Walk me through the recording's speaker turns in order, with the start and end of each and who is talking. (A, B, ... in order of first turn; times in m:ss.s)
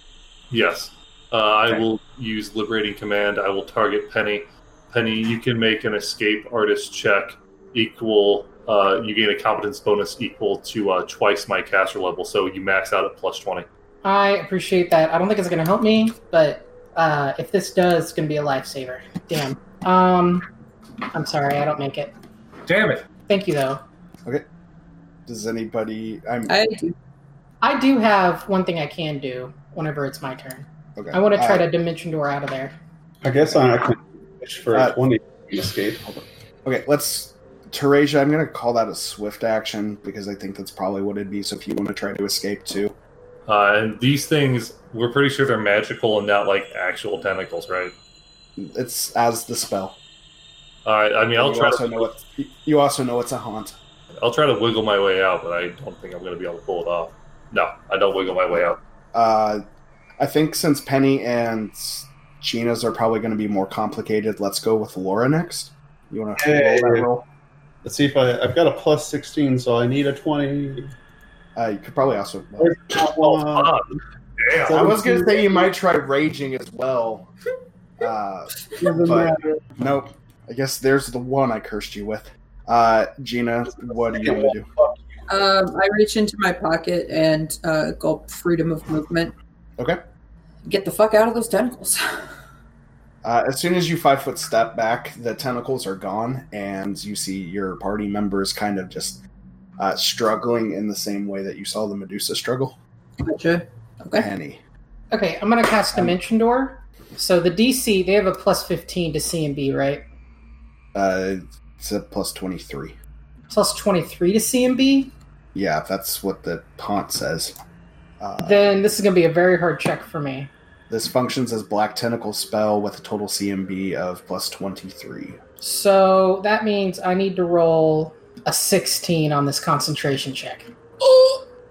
0:00.5-0:13.7 A
0:14.0-0:20.4 B
0:21.1-0:22.1 B
0:22.7-0:23.0 A
0:23.2-0:23.8 B
0:25.3-0:26.6 C
0:26.5-0:27.0 D
0:27.6-0:32.8 B
0:31.0-0:31.7 C
0:33.2-0:36.2 E
0:36.6-0:43.0 C
0:43.5-0:48.0 A
0:48.6-0:50.0 C
0:50.8-0:52.1 A
0:51.4-0:53.8 C
0:54.1-0:58.8 A
0:59.1-0:59.6 C
1:00.2-1:07.3 C
1:06.4-1:07.1 E
1:07.8-1:10.9 E
1:11.6-1:12.9 C
1:12.6-1:14.0 E
1:13.1-1:14.8 A
1:14.7-1:15.7 E
1:14.7-1:17.3 C
1:18.0-1:24.7 C
1:18.8-1:19.8 E
1:23.8-1:25.0 E
1:25.3-1:29.3 D
1:30.7-1:32.0 D
1:33.2-1:39.2 C
1:39.8-1:42.8 C
1:43.2-1:44.3 D
1:44.1-1:44.6 C
1:45.1-1:50.0 B
1:50.9-1:53.0 C
1:53.5-1:55.1 B
1:55.5-1:57.6 C
1:58.2-1:58.8 C
1:58.4-2:00.5 B
2:00.9-2:05.4 C
2:05.6-2:10.7 B
2:11.0-2:11.4 D